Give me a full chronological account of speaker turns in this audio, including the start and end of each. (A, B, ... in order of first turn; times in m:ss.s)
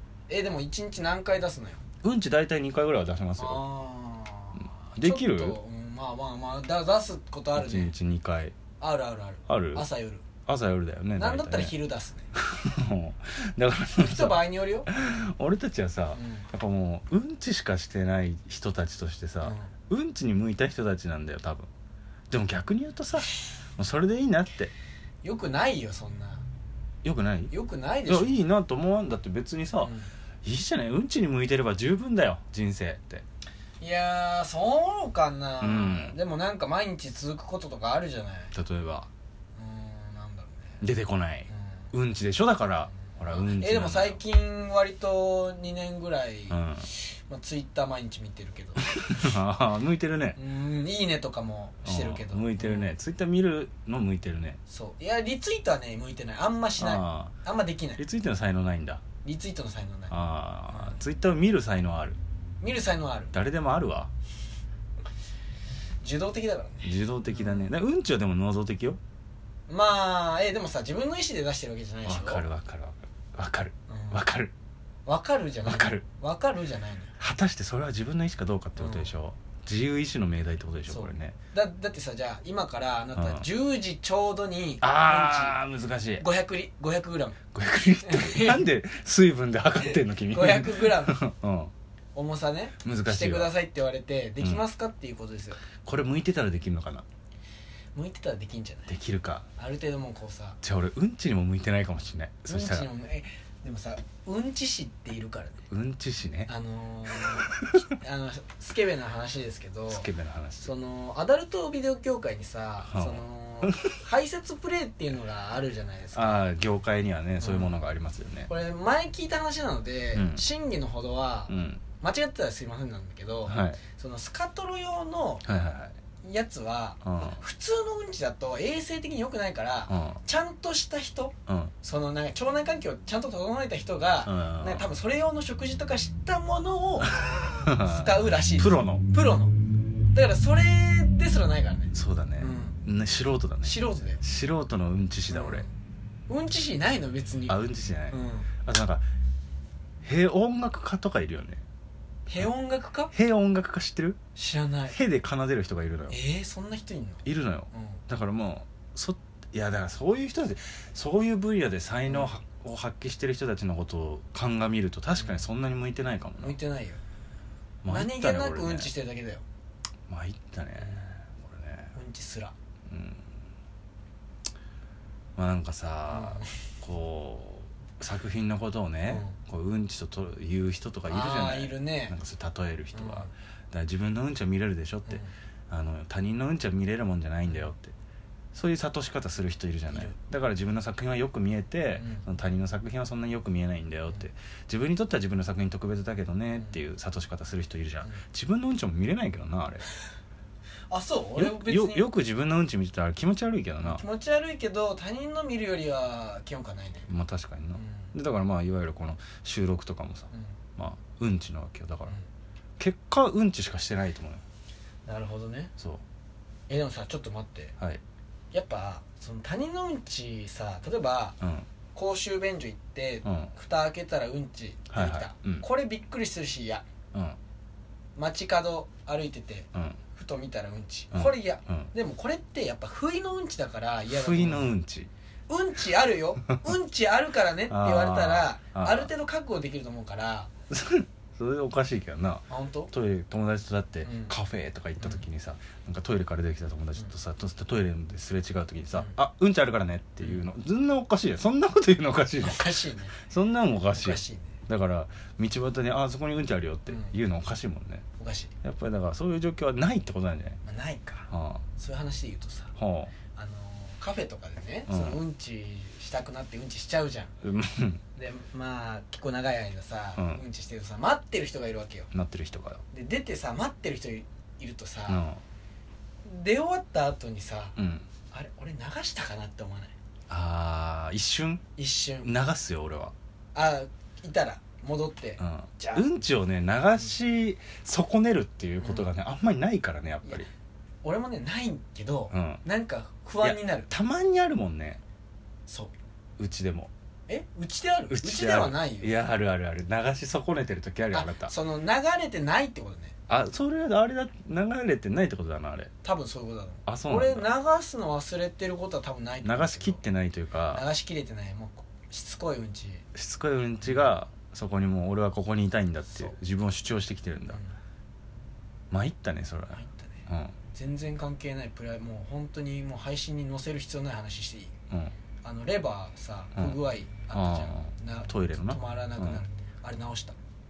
0:00.3-0:01.8 A
0:02.0-0:03.6 B
0:03.4-0:07.9 A
0:05.0-0:05.6 B
0:07.6-0:08.6 B
0:08.8-0:10.2 A
0:09.5-0:09.9 B
0:10.5-0:11.8 B
0:11.2-0:12.3 A
0:12.3-0:21.7 B
0:14.0-0:14.9 A
0:16.2-0:16.5 A
0:19.4-0:19.7 A
0:22.3-0:24.7 B
0:25.2-0:26.4 A
0:27.0-0:27.5 B
0:27.5-0:28.4 A
0:28.1-0:29.9 B
0:29.8-0:30.1 A
0:30.4-0:33.2 B
0:33.8-0:38.5 A
0:35.6-0:36.2 B
0:38.5-0:39.1 B
0:39.6-0:40.8 A
0:40.8-0:44.2 B
0:41.5-0:41.9 A
0:43.1-0:49.3 A
0:46.5-0:46.9 B
0:48.9-0:50.4 B
0:50.4-0:52.9 A
0:51.8-0:54.6 B
0:54.7-0:58.0 A
0:56.8-0:57.3 B
0:58.0-0:59.0 B
0:59.2-1:00.1 A
1:00.1-1:02.2 B
1:00.7-1:01.0 A
1:02.6-1:03.3 A
1:03.3-1:04.1 B
1:06.0-1:07.7 A
1:06.8-1:09.0 B
1:09.7-1:12.5 A
1:12.0-1:14.5 B
1:13.9-1:14.2 A
1:15.1-1:17.1 A
1:15.6-1:16.0 B
1:17.2-1:21.4 B
1:18.8-1:19.1 A
1:20.9-1:25.6 A
1:23.2-1:23.5 B
1:24.8-1:26.3 B
1:26.2-1:27.4 A
1:27.5-1:31.7 B
1:28.0-1:28.6 A
1:29.9-1:31.2 A
1:32.2-1:35.6 A
1:32.8-1:33.5 B
1:35.8-1:37.0 B
1:38.0-1:39.0 A
1:38.9-1:39.5 B
1:39.6-1:40.6 A
1:40.6-1:42.9 B
1:42.5-1:45.6 A
1:45.7-1:46.5 B
1:46.5-1:50.1 A
1:47.3-1:47.8 B
1:49.9-1:50.7 B
1:50.6-1:56.4 A
1:52.8-1:54.0 B
1:56.1-1:58.5 B
1:57.4-1:57.7 A
1:58.5-2:05.4 A
2:00.1-2:00.4 B
2:01.5-2:01.8 B
2:03.5-2:03.8 B
2:05.4-2:06.0 B
2:06.2-2:19.6 A
2:07.0-2:07.4 B
2:09.9-2:10.2 B
2:11.5-2:11.7 B
2:14.2-2:14.8 B
2:17.2-2:19.0 B
2:20.1-2:22.8 A
2:21.9-2:25.7 B
2:23.6-2:24.2 A
2:25.3-2:25.7 A
2:26.3-2:27.6 A
2:27.5-2:29.0 B
2:28.1-2:28.5 A
2:30.0-2:31.6 B
2:32.3-2:33.1 A
2:33.1-2:34.2 B
2:34.4-2:35.0 A
2:34.9-2:36.2 B
2:36.1-2:38.0 A
2:37.2-2:46.6 B
2:45.2-2:45.5 A
2:46.4-2:47.0 A
2:47.8-2:48.9 B
2:47.9-2:49.4 A
2:50.1-2:51.9 B
2:50.8-2:51.2 A
2:52.0-2:52.5 A
2:52.9-2:53.3 B
2:55.4-3:07.9 B
2:56.1-2:56.6 A
2:59.1-2:59.4 A
3:01.1-3:02.2 A
3:02.9-3:03.3 A
3:05.1-3:05.3 A
3:08.5-3:19.8 B
3:12.0-3:12.2 A
3:20.9-3:22.1 A
3:21.4-3:24.0 B
3:23.8-3:27.1 A
3:27.1-3:32.2 B
3:27.8-3:28.1 A
3:32.8-3:34.4 B
3:35.1-3:35.7 A
3:36.7-3:37.7 A
3:38.5-3:41.4 A
3:41.4-3:41.7 B
3:41.9-3:46.9 A
3:43.2-3:43.5 B
3:44.9-3:45.6 B
3:48.2-3:54.7 A
3:49.7-3:50.0 B
3:51.1-3:51.9 B
3:54.1-3:55.1 B
3:55.5-4:00.5 A
3:57.7-3:59.1 B
4:00.7-4:18.0 B
4:02.5-4:02.9 A
4:04.0-4:04.4 A
4:12.4-4:13.2 A
4:13.9-4:14.6 A
4:16.9-4:17.1 A
4:18.2-4:18.5 A
4:18.6-4:20.6 B
4:20.6-4:22.8 A
4:21.3-4:21.6 B
4:22.8-4:23.1 B
4:23.3-4:27.3 A
4:24.9-4:25.2 B
4:27.4-4:28.0 B
4:28.2-4:32.1 A
4:30.2-4:30.4 B
4:32.1-4:32.8 B
4:32.9-4:35.2 A
4:35.1-4:35.4 B
4:36.2-4:37.8 A
4:37.8-4:38.1 B
4:38.3-4:39.9 A
4:40.3-4:41.6 B
4:41.8-4:42.4 A
4:42.2-4:43.1 B
4:43.5-4:46.1 A
4:45.4-4:50.5 B
4:48.8-4:49.1 A
4:51.0-4:53.9 A
4:52.3-4:52.6 B
4:53.4-4:55.0 B
4:55.7-4:55.9 A
4:56.4-4:56.9 B
4:57.3-4:59.2 A
4:58.1-5:01.5 B
5:01.1-5:03.2 A
5:03.3-5:05.9 B
5:06.0-5:10.0 A
5:06.9-5:07.5 B
5:09.4-5:10.8 B
5:10.7-5:13.1 A
5:13.1-5:17.6 B
5:17.5-5:17.8 A
5:18.9-5:20.5 B
5:19.7-5:24.7 A
5:25.4-5:30.4 A
5:27.3-5:29.4 B